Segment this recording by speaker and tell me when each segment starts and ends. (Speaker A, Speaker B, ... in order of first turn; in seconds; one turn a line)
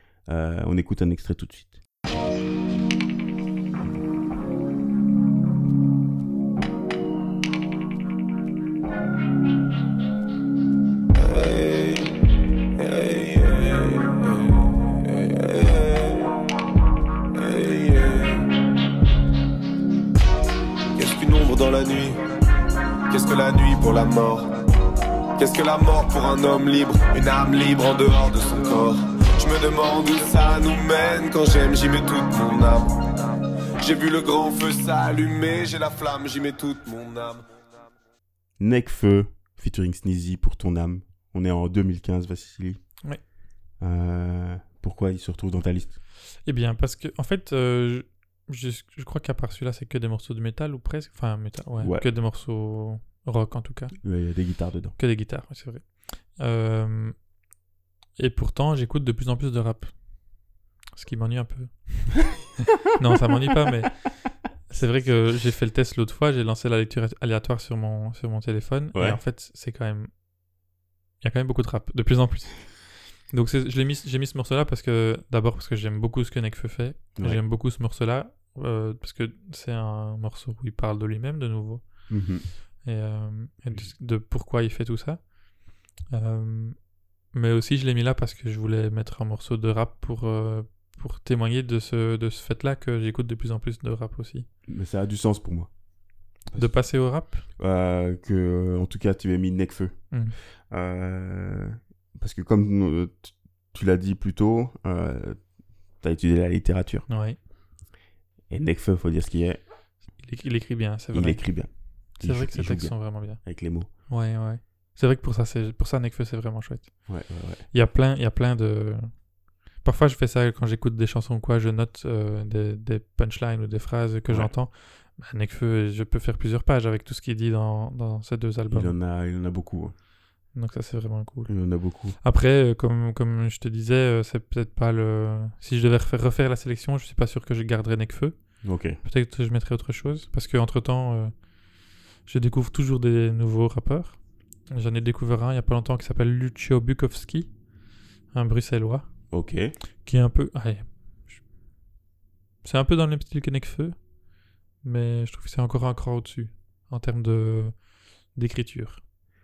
Speaker A: 0.3-1.8
Speaker B: 11.1-12.1
Speaker B: 12.8-16.3
Speaker B: 17.3-18.5
Speaker B: 20.9-22.2
Speaker B: 23.1-24.5
Speaker B: 25.4-33.1
Speaker B: 33.8-37.5
Speaker A: 38.6-42.8
Speaker A: 43.8-46.0
Speaker C: 46.5-54.0
Speaker A: 51.8-52.1
Speaker A: 54.0-54.9
Speaker C: 55.0-57.2
Speaker C: 58.1-60.0
Speaker C: 60.9-64.0
Speaker C: 64.7-70.1
Speaker A: 68.9-69.2
Speaker C: 71.2-82.0
Speaker A: 82.1-82.5
Speaker C: 82.8-85.3
Speaker C: 86.1-86.8
Speaker C: 87.3-94.5
Speaker A: 94.7-95.7
Speaker A: 96.5-96.7
Speaker C: 96.5-97.4
Speaker A: 97.6-100.0
Speaker C: 100.1-100.4
Speaker A: 100.7-105.4
Speaker A: 106.0-107.0
Speaker C: 107.1-107.4
Speaker A: 108.5-109.6
Speaker C: 110.2-111.4
Speaker A: 111.1-113.9
Speaker C: 112.2-113.4
Speaker C: 114.1-116.9
Speaker A: 117.1-117.7
Speaker C: 117.7-119.1
Speaker C: 119.8-128.9
Speaker A: 128.7-129.9
Speaker C: 130.5-131.5
Speaker A: 131.5-132.2
Speaker C: 132.2-138.5
Speaker A: 138.6-139.0
Speaker C: 139.0-141.4
Speaker C: 142.2-144.2
Speaker C: 144.7-147.5
Speaker C: 148.3-149.1
Speaker A: 149.3-149.7
Speaker C: 150.0-151.4
Speaker C: 152.6-154.0
Speaker C: 154.8-157.8
Speaker C: 158.3-159.0